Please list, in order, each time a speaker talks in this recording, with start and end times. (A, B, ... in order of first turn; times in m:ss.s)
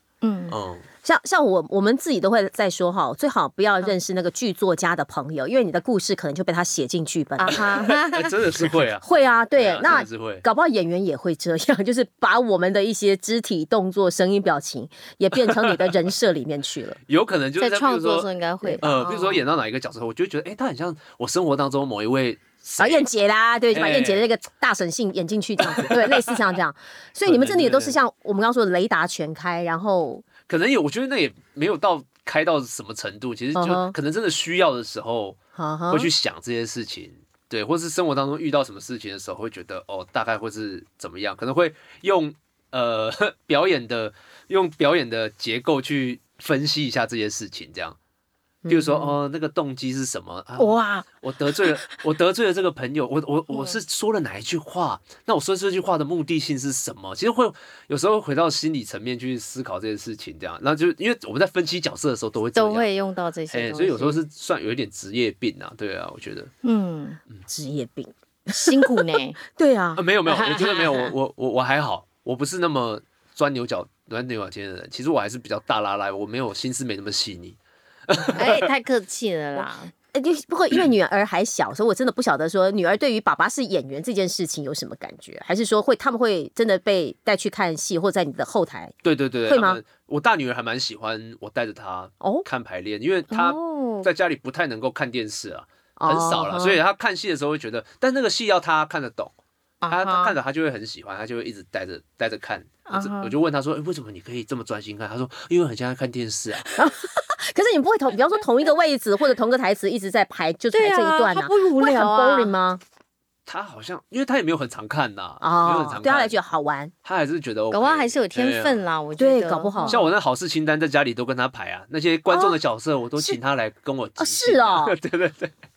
0:00.2-0:00.6 A
0:00.5-0:00.8 B
0:01.0-0:07.6 C
0:07.4-0:08.3 A
0:07.5-0:10.4 B
0:09.0-0:17.0 C
0:15.5-0:15.9 B
0:17.1-0:18.3 B
0:17.6-0:19.4 A
0:18.8-0:23.0 B
0:22.8-0:30.2 C
0:23.7-0:24.3 B
0:25.6-0:26.4 B
0:27.2-0:28.0 B
0:30.5-0:48.0 B
0:33.5-0:33.9 C
0:35.6-0:36.1 C
0:48.6-0:49.2 C
0:48.7-1:02.9 B
0:50.6-0:51.1 A
0:51.6-0:51.9 A
0:53.5-0:53.8 A
1:02.6-1:04.2 A
1:03.5-1:06.5 B
1:06.6-1:07.2 A
1:07.5-1:10.0 C
1:08.5-1:09.4 A
1:10.0-1:17.6 B
1:10.3-1:11.1 A
1:18.1-1:18.7 B
1:18.3-1:19.9 A
1:20.1-1:28.9 C
1:29.0-1:39.3 B
1:29.5-1:29.8 C
1:32.2-1:32.4 C
1:33.3-1:34.1 A
1:36.0-1:36.8 C
1:39.8-1:40.3 A
1:39.9-1:46.7 B
1:42.9-1:43.3 A
1:46.8-1:52.8 C
1:50.7-1:52.5 A
1:53.4-1:56.4 B
1:55.4-1:56.9 C
1:57.0-1:58.8 B
1:57.7-2:00.1 A
1:59.2-2:00.0 C
1:59.9-2:05.5 B
2:02.3-2:02.6 C
2:04.2-2:05.0 C